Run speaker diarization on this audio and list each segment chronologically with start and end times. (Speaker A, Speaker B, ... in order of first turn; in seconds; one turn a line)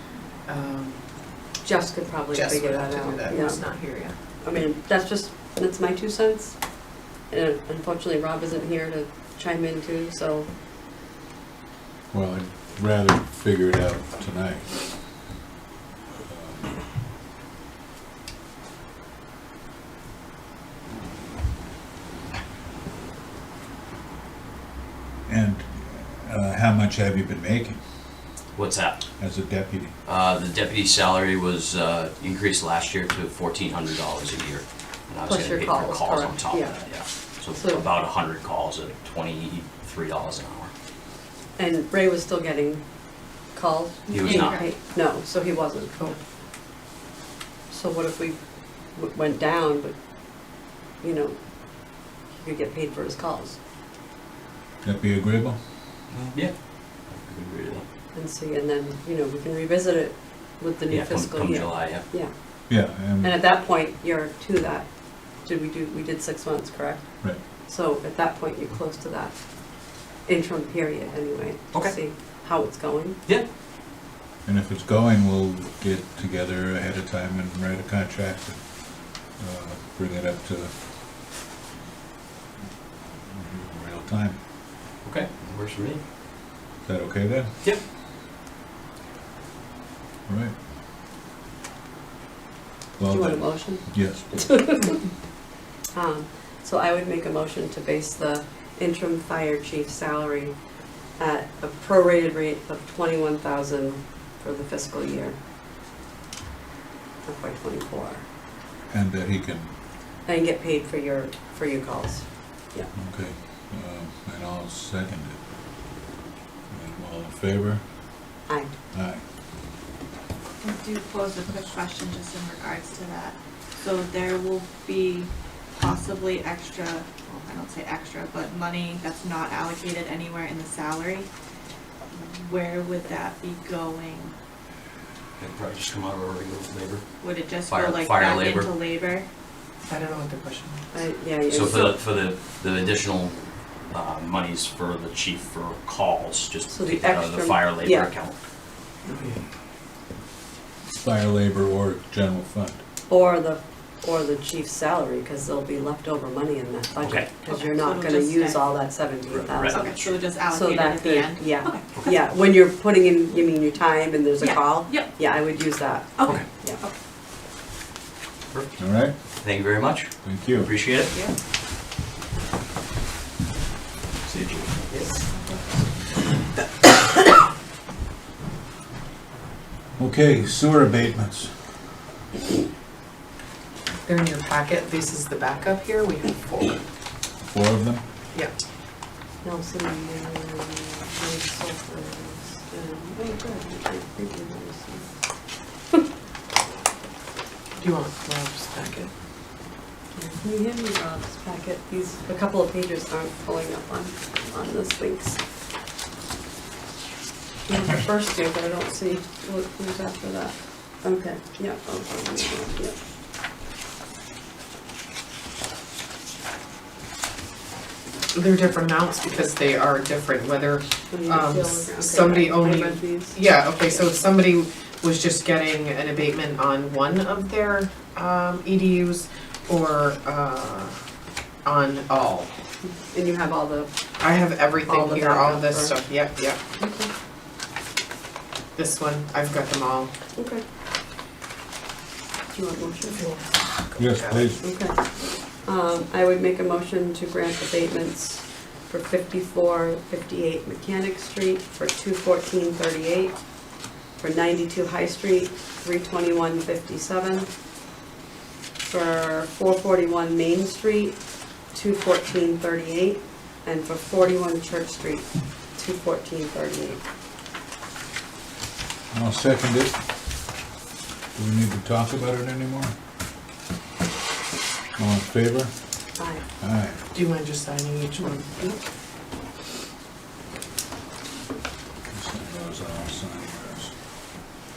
Speaker A: 0.5-1.0
Speaker B: 1.6-3.6
Speaker A: 2.3-4.2
Speaker B: 4.4-6.6
Speaker B: 7.3-10.5
Speaker C: 12.1-14.8
Speaker C: 16.2-16.8
Speaker C: 25.3-27.8
Speaker D: 28.6-29.1
Speaker C: 29.2-30.0
Speaker D: 30.1-40.7
Speaker B: 35.3-36.8
Speaker B: 37.5-37.9
Speaker B: 41.6-42.8
Speaker B: 43.5-46.1
Speaker E: 44.1-44.7
Speaker D: 44.1-44.6
Speaker B: 47.7-48.4
Speaker B: 49.0-50.0
Speaker B: 51.0-51.4
Speaker B: 52.3-53.6
Speaker C: 54.8-55.6
Speaker D: 56.1-56.5
Speaker D: 57.1-57.9
Speaker B: 58.1-62.3
Speaker D: 60.9-62.1
Speaker C: 62.7-63.3
Speaker B: 63.2-64.9
Speaker B: 65.4-67.1
Speaker B: 67.7-69.4
Speaker B: 70.3-73.2
Speaker C: 74.5-78.6
Speaker C: 79.4-80.7
Speaker C: 83.3-84.4
Speaker D: 85.0-86.0
Speaker C: 86.8-87.5
Speaker C: 90.3-90.5
Speaker C: 93.0-94.5
Speaker B: 93.1-95.0
Speaker B: 95.9-100.6
Speaker B: 101.2-105.4
Speaker B: 107.3-108.2
Speaker C: 108.9-109.7
Speaker B: 110.3-112.9
Speaker C: 113.0-115.4
Speaker C: 116.7-117.8
Speaker C: 118.9-119.2
Speaker E: 120.6-131.3
Speaker E: 132.1-134.3
Speaker D: 135.4-137.1
Speaker E: 137.2-139.3
Speaker D: 137.7-138.8
Speaker A: 139.9-140.8
Speaker B: 140.9-142.0
Speaker D: 141.5-143.4
Speaker D: 143.9-148.4
Speaker B: 146.7-148.1
Speaker C: 150.9-152.8
Speaker B: 153.1-159.9
Speaker D: 157.0-157.3
Speaker E: 157.4-158.7
Speaker D: 159.3-160.2
Speaker E: 159.7-162.2
Speaker B: 160.5-166.8
Speaker E: 164.4-165.2
Speaker E: 166.2-166.9
Speaker D: 168.5-168.8
Speaker C: 168.8-169.1
Speaker D: 169.4-171.1
Speaker C: 170.2-170.7
Speaker E: 171.1-171.3
Speaker D: 174.3-175.1
Speaker E: 175.3-175.9
Speaker C: 180.0-181.5
Speaker A: 184.1-186.8
Speaker C: 187.4-188.0
Speaker B: 189.4-195.1
Speaker A: 197.8-199.1
Speaker B: 200.2-205.4
Speaker B: 207.7-213.0
Speaker A: 218.3-230.9
Speaker B: 221.1-224.1
Speaker A: 231.7-232.5
Speaker B: 232.8-233.9
Speaker A: 234.2-236.6
Speaker B: 234.8-236.0
Speaker B: 236.8-237.1
Speaker A: 238.8-240.1
Speaker B: 240.4-240.6
Speaker B: 242.5-243.2
Speaker A: 243.2-244.6
Speaker C: 244.0-244.6
Speaker B: 244.6-245.0
Speaker B: 245.7-253.4
Speaker B: 254.2-257.5
Speaker B: 258.9-261.2
Speaker B: 261.7-267.0
Speaker C: 269.1-270.0
Speaker C: 271.4-272.9
Speaker C: 275.0-275.7
Speaker B: 276.2-276.4
Speaker C: 276.6-277.0
Speaker A: 277.1-278.5
Speaker C: 282.1-283.9